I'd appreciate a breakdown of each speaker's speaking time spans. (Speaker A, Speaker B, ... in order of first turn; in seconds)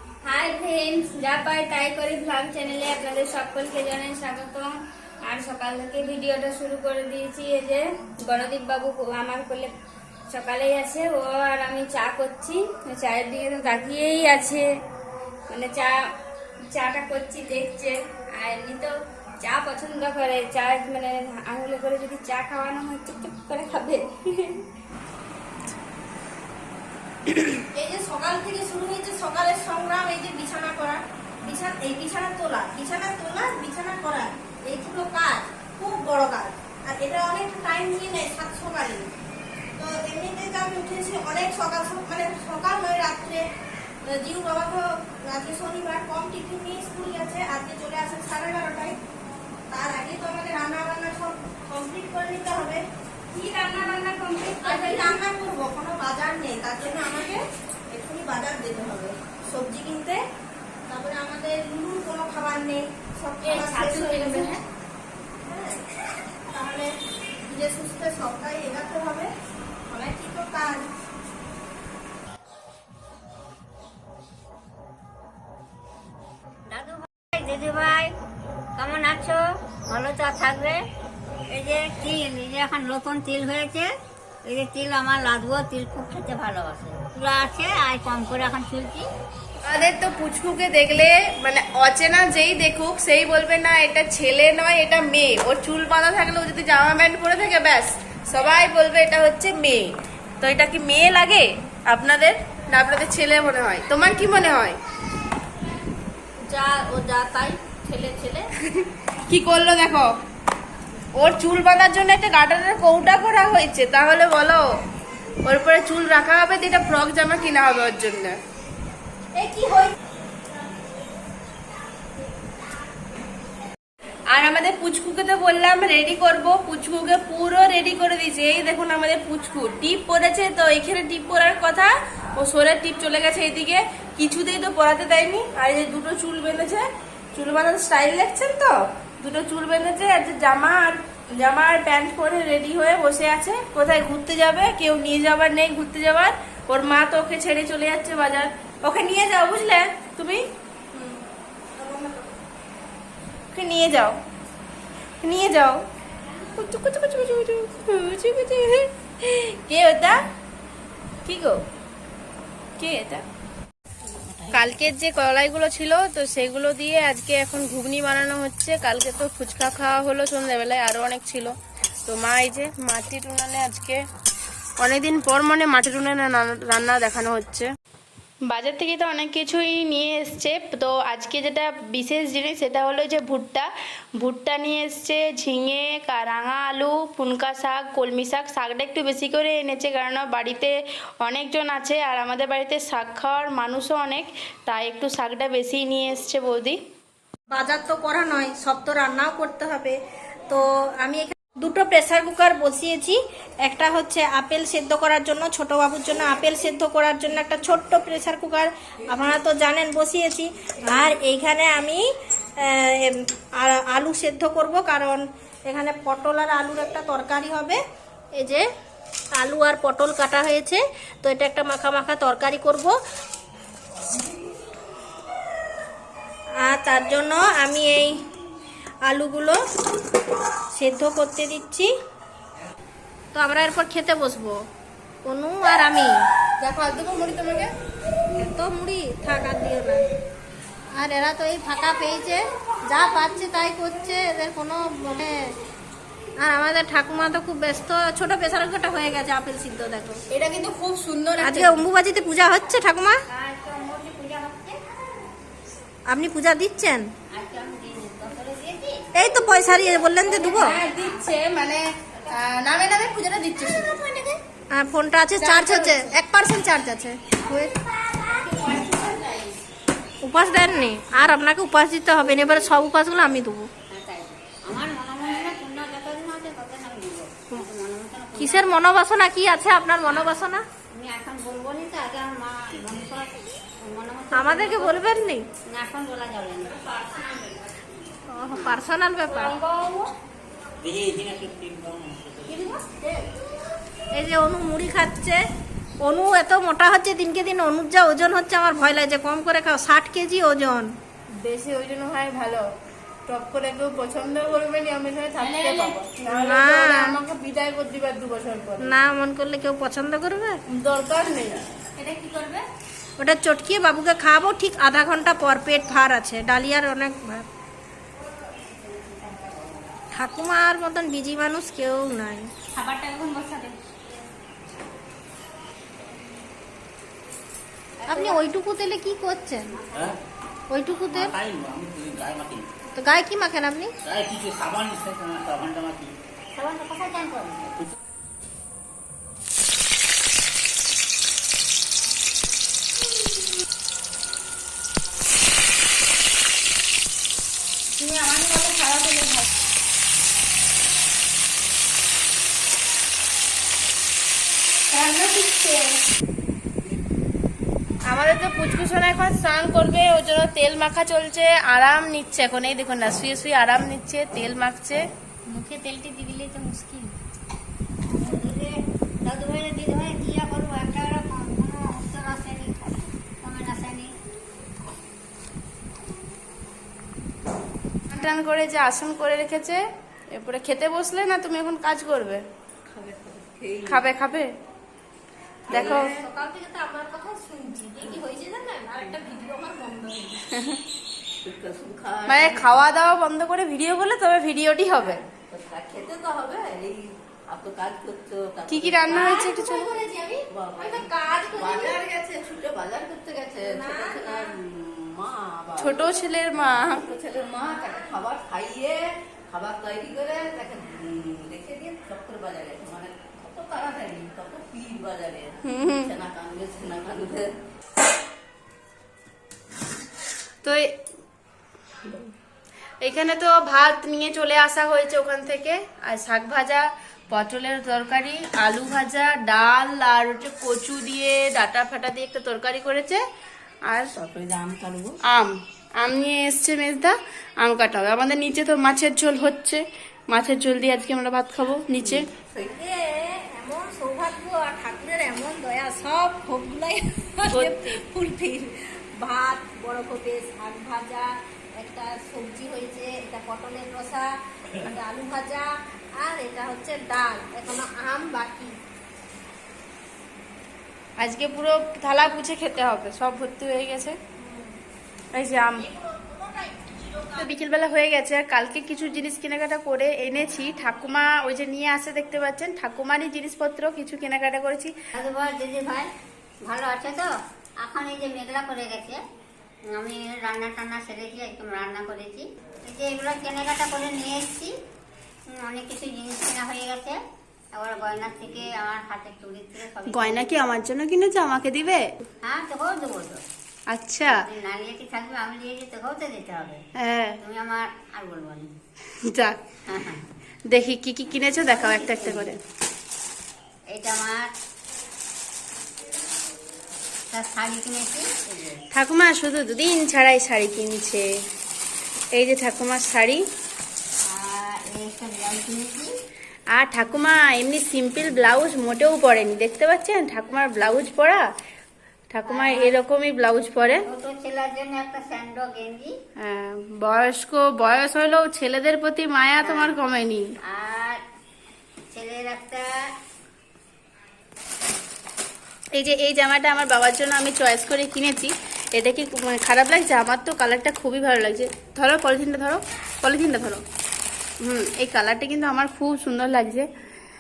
Speaker A: 0.2-9.7, 10.3-14.7, 15.5-16.0, 16.7-18.9, 19.4-24.6, 53.3-55.2, 63.4-64.6, 289.3-290.1
Speaker B: 27.7-39.1, 39.8-43.5, 44.0-49.0, 49.7-52.8, 54.6-60.2, 60.9-64.6, 65.5-65.8, 66.5-66.9, 67.5-69.3, 69.9-70.9, 119.4-119.9, 151.8-152.3, 197.5-200.0, 200.5-212.1, 212.6-217.8, 218.3-218.7, 219.3-223.0, 226.6-228.2, 229.1-229.6, 230.7-231.9, 233.3-234.6, 235.2-236.2, 238.4-240.0, 241.0-245.6, 246.4-250.2, 251.4-253.2, 256.1-257.1, 259.1-260.8, 264.7-267.7, 270.2-273.7, 278.4-280.6, 284.3-285.5, 288.3-289.6, 294.1-295.5, 296.0-300.9, 306.2-307.1, 308.8-310.6, 313.2-317.5, 320.1-322.5, 328.1-329.7, 330.7-331.3, 332.9-333.9, 385.7-390.4, 399.1-402.0, 403.6-404.6, 407.8-408.1, 442.6-458.8, 464.4-464.7, 466.0-467.4
Speaker C: 76.7-78.1, 78.8-80.8, 81.5-83.9, 84.5-89.1, 253.3-254.8, 257.3-259.1, 260.2-261.2, 273.9-278.8, 280.9-285.1, 285.7-286.8, 312.0-312.6, 318.6-319.9, 322.8-323.7, 328.0-328.4, 329.7-330.2, 336.5-337.7, 365.5-367.0, 368.1-374.1, 475.1-476.1, 476.6-479.2, 479.9-484.7, 485.5-487.2, 487.7-490.6, 492.4-493.4, 494.3-496.8, 497.4-498.7, 499.9-500.2, 501.6-502.6, 503.9-504.5, 507.3-508.8, 514.3-516.1, 522.5-523.0, 524.0-526.1, 529.6-530.0, 530.6-531.2, 532.1-533.1
Speaker D: 89.7-104.8, 106.6-108.2, 109.3-110.1, 111.2-114.6, 115.5-118.4, 124.3-150.4, 153.5-154.2, 155.2-155.8, 156.6-160.2, 161.3-161.6, 162.8-163.2, 164.5-171.5, 172.1-174.0, 174.8-177.7, 178.5-196.8, 236.6-237.7, 250.3-251.8, 260.5-264.1, 265.4-266.1, 268.3-269.6, 301.4-302.7, 303.3-308.9, 310.7-311.6, 348.0-349.4, 354.9-355.9, 358.1-365.0, 378.1-379.8, 380.3-382.4, 383.9-384.5, 385.7-386.1, 392.3-395.2, 398.7-399.9, 405.8-407.1, 415.6-416.1, 420.6-420.9, 423.0-433.2, 435.3-442.3, 447.5-448.0, 461.2-464.2, 465.3-465.9, 467.3-474.9, 490.1-492.1, 493.9-494.3, 497.0-497.4, 499.3-499.6, 500.7-502.6, 508.9-511.3, 512.4-513.4, 516.8-521.4, 522.3-524.0, 526.4-530.5, 536.0-543.8, 544.6-546.9
Speaker E: 107.0-107.3, 382.9-384.1, 385.7-386.1, 391.4-392.9, 395.0-399.4, 400.5-417.5, 434.1-435.2, 442.0-442.8
Speaker F: 290.8-292.6, 331.1-332.7, 334.1-336.1